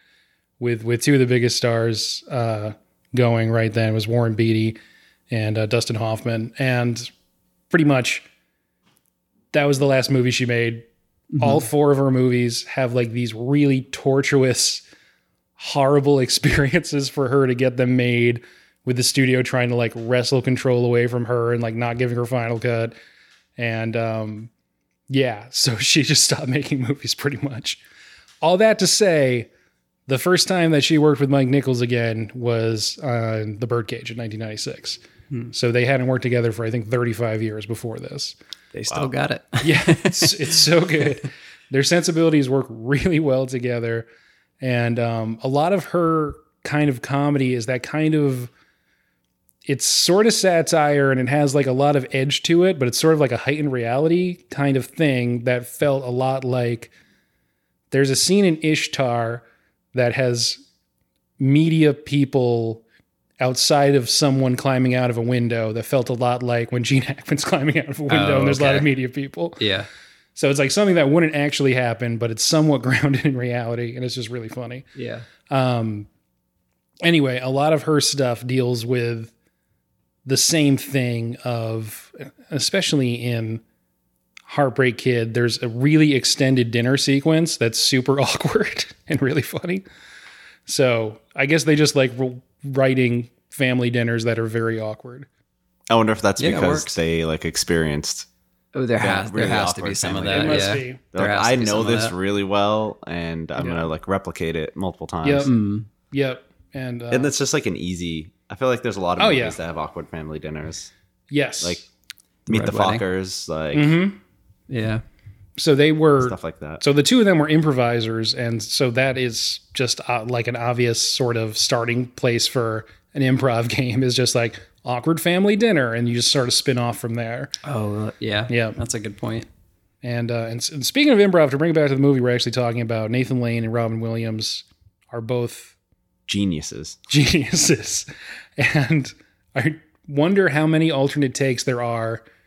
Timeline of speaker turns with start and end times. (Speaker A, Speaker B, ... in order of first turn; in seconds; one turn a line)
Speaker A: 0.6-4.8
Speaker A: 5.3-7.1
Speaker A: 7.7-8.2
Speaker A: 9.5-10.8
Speaker B: 11.3-11.6
Speaker A: 11.4-14.8
Speaker A: 15.6-22.9
Speaker A: 23.6-24.5
Speaker A: 25.1-27.8
Speaker A: 28.4-29.5
Speaker A: 30.1-38.4
Speaker B: 38.7-40.6
Speaker A: 39.6-44.1
Speaker A: 44.6-48.5
Speaker A: 49.6-56.9
Speaker A: 57.9-60.6
Speaker A: 61.4-62.8
Speaker A: 63.4-69.6
Speaker B: 68.1-68.9
Speaker B: 69.6-69.9
Speaker A: 70.3-74.9
Speaker B: 74.9-75.2
Speaker A: 75.5-76.1
Speaker A: 77.0-79.3
Speaker A: 80.2-83.6
Speaker A: 84.5-89.8
Speaker A: 90.7-95.3
Speaker C: 95.9-98.3
Speaker B: 96.4-97.0
Speaker B: 98.7-102.1
Speaker C: 99.0-105.5
Speaker A: 100.3-101.0
Speaker A: 103.6-103.9
Speaker A: 105.2-105.5
Speaker B: 105.4-105.9
Speaker A: 106.1-107.3
Speaker C: 107.1-110.9
Speaker A: 109.2-109.6
Speaker A: 111.3-111.8
Speaker C: 112.5-114.0
Speaker B: 112.5-113.0
Speaker A: 113.7-114.2
Speaker B: 114.7-115.0
Speaker A: 115.6-127.5
Speaker C: 116.2-116.8
Speaker B: 127.6-129.5
Speaker A: 128.5-128.8
Speaker A: 130.0-135.7
Speaker C: 136.3-137.0
Speaker A: 137.1-142.2